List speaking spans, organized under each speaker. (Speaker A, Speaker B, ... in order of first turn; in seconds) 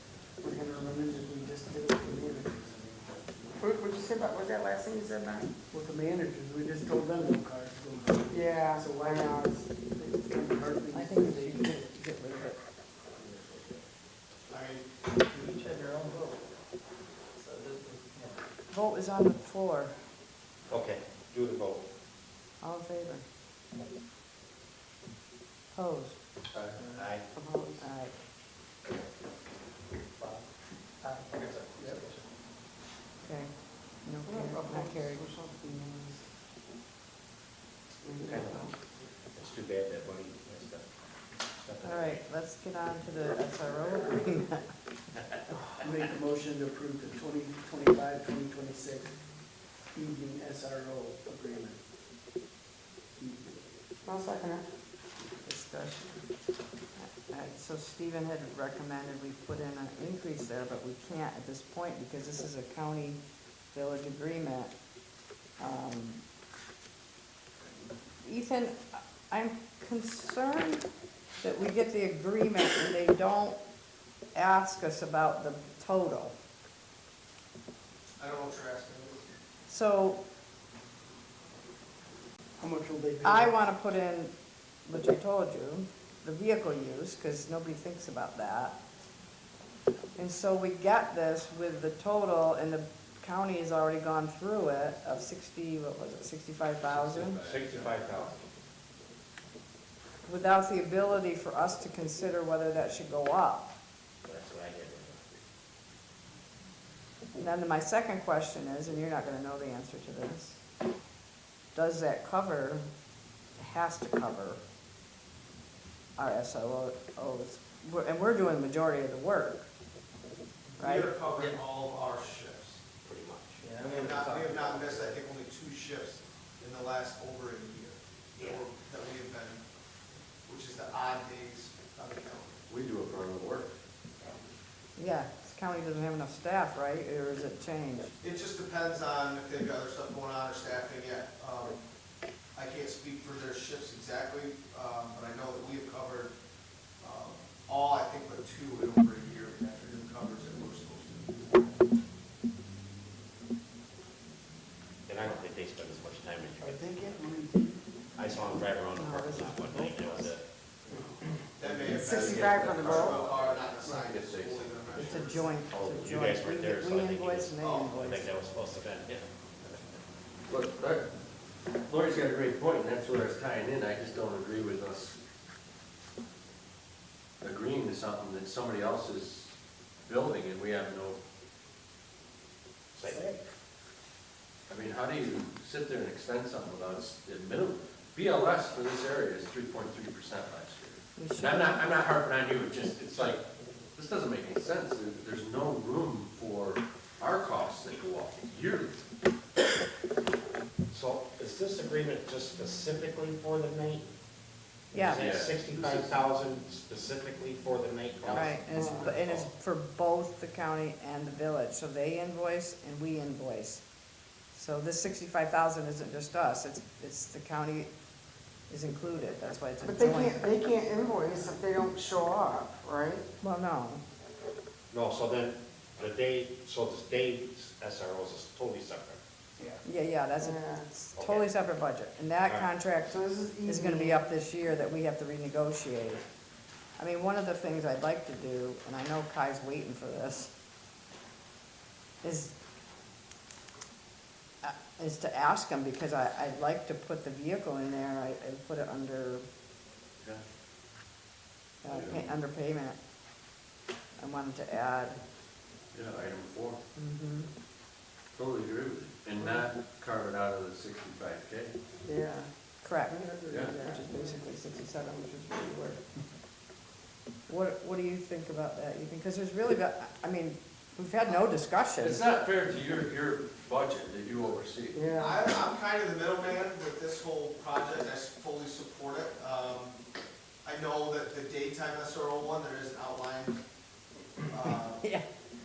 Speaker A: 0.4-3.6, 5.7-12.0, 45.8-49.1, 49.9-51.8, 53.2-53.6, 82.6-83.6, 156.6-157.8
Speaker B: 3.6-5.6, 8.3-9.6, 27.2-27.9, 31.0-31.4, 34.2-36.3, 38.0-38.7, 54.0-54.7, 161.9-163.2, 208.8-209.1, 219.8-223.3, 230.4-230.9, 233.1-234.2, 262.0-262.5, 263.0-264.4, 274.9-275.4
Speaker C: 10.9-12.6, 18.7-19.9, 22.6-23.2, 25.7-26.2, 27.8-28.1, 33.2-35.2, 41.8-44.6, 55.4-56.2, 57.0-63.2, 63.7-64.8, 65.6-66.2, 68.2-70.8, 71.4-73.6, 74.3-76.3, 79.7-80.2, 83.2-84.3, 84.8-88.8, 90.2-97.4, 100.2-103.7, 107.3-110.6, 111.7-112.9, 113.6-114.6, 116.2-119.7, 120.8-121.1, 135.0-138.1, 159.0-159.9, 164.9-168.3, 191.2-191.9, 204.9-205.2, 208.3-213.8, 214.5-217.9, 218.7-220.4, 223.4-224.0, 229.8-236.2, 237.0-240.5, 242.2-242.6, 244.6-249.5, 251.8-253.0, 254.2-255.2, 256.9-257.5, 262.8-266.0, 267.5-272.2
Speaker D: 14.5-14.9, 78.2-79.3, 120.8-122.8, 123.8-129.7, 130.4-132.6, 138.2-141.8, 142.6-146.3, 147.0-151.7, 161.6-165.6, 167.6-168.0, 275.1-279.9, 280.6-283.6, 284.5-285.0
Speaker E: 20.7-21.9, 26.9-27.3, 30.2-30.4, 31.3-32.2, 38.1-38.7, 39.3-42.2, 97.4-98.4, 104.2-105.4, 123.0-125.2, 128.4-128.6, 155.1-156.9, 158.2-160.4, 165.7-169.2, 182.9-183.3, 200.9-204.1, 204.9-209.4, 224.9-229.2, 231.2-231.5
Speaker F: 26.5-26.8, 96.8-98.2, 132.7-133.8, 161.7-165.1, 170.5-171.1, 171.9-175.2, 177.4-181.2, 184.7-199.0, 205.1-206.2, 208.3-209.5, 251.9-252.3, 255.9-256.8, 258.3-261.8, 263.5-263.8, 272.0-275.0